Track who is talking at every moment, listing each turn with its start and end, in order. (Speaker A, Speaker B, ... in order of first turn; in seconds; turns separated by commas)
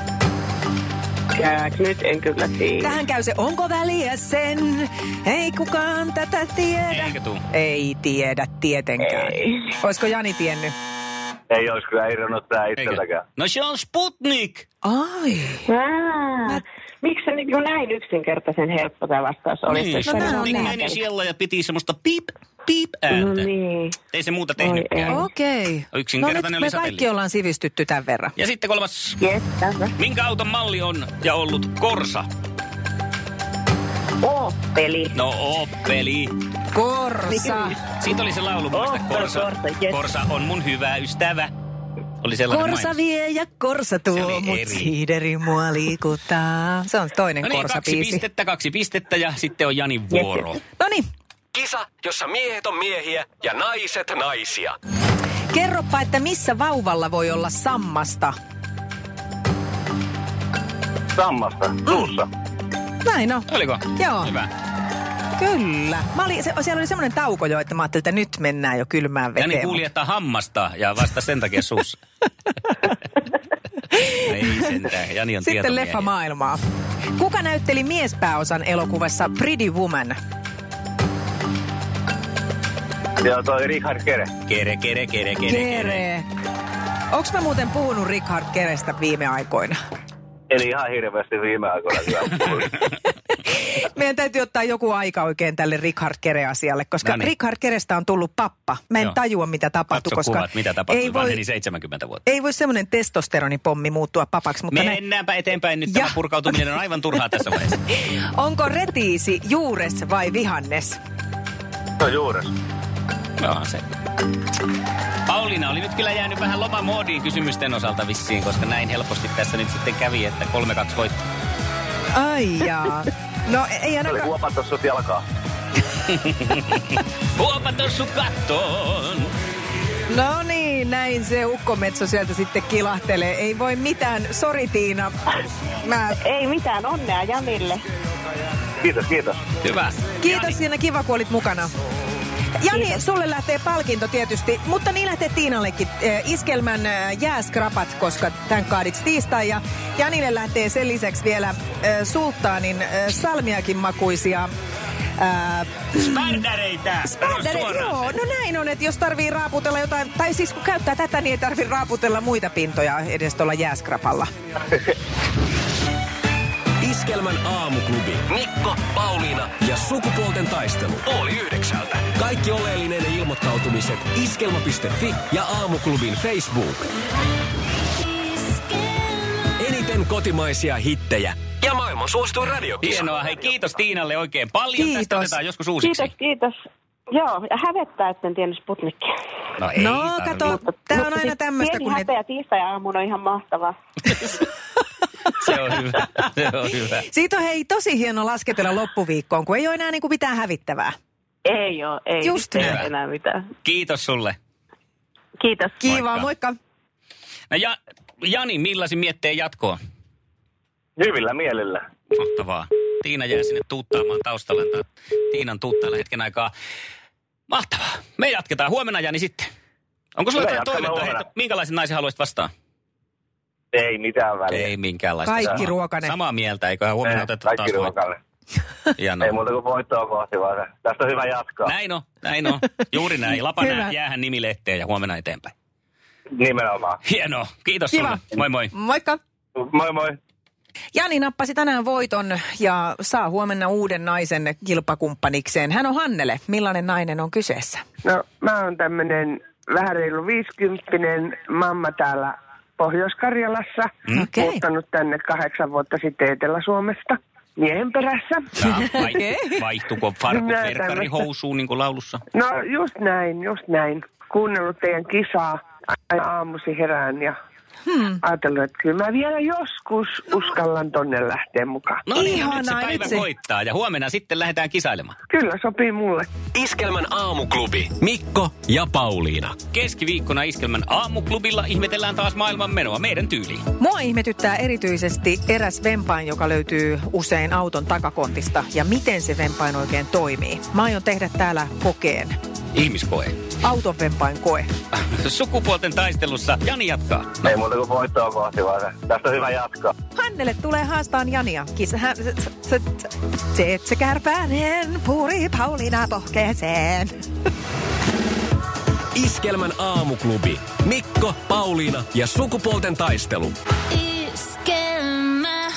Speaker A: 1.3-3.0, Speaker B: 2.8-10.7, Speaker C: 6.9-7.4, Speaker A: 9.0-9.8, Speaker D: 11.5-13.2, Speaker C: 12.8-14.7, Speaker B: 14.8-15.7, Speaker A: 15.7-21.0, Speaker C: 19.7-23.5, Speaker B: 20.0-20.8, Speaker A: 23.1-24.0, Speaker C: 24.1-25.2, Speaker A: 24.6-25.3, Speaker B: 25.1-28.3, Speaker C: 25.9-27.1, Speaker C: 28.4-29.2, Speaker A: 29.2-29.9, Speaker C: 30.0-32.3, Speaker A: 34.2-35.2, Speaker C: 35.1-36.4, Speaker B: 36.7-37.8, Speaker A: 37.3-37.8, Speaker C: 38.0-41.5, Speaker A: 38.7-40.0, Speaker C: 42.2-43.0, Speaker B: 42.5-48.2, Speaker C: 44.1-44.9, Speaker C: 47.4-50.6, Speaker A: 50.1-50.4, Speaker B: 50.8-51.1, Speaker E: 51.5-54.8, Speaker B: 55.5-58.4, Speaker D: 61.1-62.3, Speaker B: 63.0-64.3, Speaker C: 63.5-64.5, Speaker B: 65.4-69.8, Speaker C: 69.4-72.0, Speaker B: 73.9-74.6, Speaker C: 74.1-76.1, Speaker B: 75.4-76.6, Speaker B: 77.2-80.2, Speaker D: 83.2-84.3, Speaker C: 84.5-86.0, Speaker B: 85.5-86.3, Speaker B: 87.1-89.8, Speaker D: 90.5-92.7, Speaker B: 93.3-101.4, Speaker C: 97.0-97.3, Speaker C: 99.9-102.2, Speaker B: 102.3-105.0, Speaker C: 104.7-107.8, Speaker B: 105.9-106.2, Speaker B: 107.9-111.0, Speaker D: 112.0-112.5, Speaker C: 113.4-113.8, Speaker C: 115.3-121.2, Speaker B: 122.1-124.3, Speaker D: 124.1-125.2, Speaker C: 126.1-129.3, Speaker B: 130.1-135.1, Speaker B: 135.8-136.2, Speaker A: 136.2-137.8, Speaker D: 138.8-139.4, Speaker C: 139.6-140.6, Speaker B: 140.2-141.7, Speaker B: 142.6-154.5, Speaker A: 142.7-143.0, Speaker B: 155.2-156.4, Speaker C: 156.0-158.2, Speaker B: 157.0-164.3, Speaker E: 166.8-176.9, Speaker A: 178.1-179.4, Speaker E: 179.6-183.1, Speaker C: 182.8-186.1, Speaker B: 184.8-185.4, Speaker A: 185.8-186.6, Speaker A: 187.1-189.1, Speaker C: 189.6-190.6, Speaker B: 189.8-192.1, Speaker A: 190.4-193.8, Speaker C: 194.1-194.4, Speaker C: 195.4-197.1, Speaker B: 197.1-200.9, Speaker A: 201.4-203.5, Speaker B: 202.2-202.8, Speaker C: 202.6-202.9, Speaker C: 203.6-204.4, Speaker A: 205.4-205.9, Speaker B: 205.8-206.6, Speaker C: 205.9-206.3, Speaker C: 207.5-209.8, Speaker D: 211.0-211.8, Speaker C: 212.1-216.5, Speaker C: 217.5-219.5, Speaker C: 220.2-222.5, Speaker D: 220.3-221.2, Speaker D: 223.7-224.7, Speaker C: 224.5-227.9, Speaker B: 225.2-226.2, Speaker D: 227.0-228.2, Speaker C: 229.0-229.3, Speaker D: 229.2-231.7, Speaker C: 231.7-235.5, Speaker B: 233.6-233.9, Speaker D: 236.3-237.0, Speaker C: 237.1-238.7, Speaker B: 237.9-239.2, Speaker D: 239.6-240.2, Speaker B: 240.9-247.8, Speaker F: 248.0-259.1, Speaker B: 254.1-254.6, Speaker C: 258.6-262.2, Speaker B: 259.1-259.6, Speaker F: 260.2-261.2, Speaker F: 262.3-267.4, Speaker B: 267.9-268.2, Speaker F: 268.2-272.1, Speaker C: 272.1-275.2, Speaker B: 272.1-273.3, Speaker F: 275.3-276.3, Speaker E: 276.5-279.6, Speaker C: 279.7-283.7, Speaker B: 283.8-292.4, Speaker C: 292.7-293.4, Speaker B: 293.6-294.7, Speaker C: 295.0-297.5, Speaker D: 297.4-299.9, Speaker B: 300.2-307.1, Speaker E: 309.1-313.6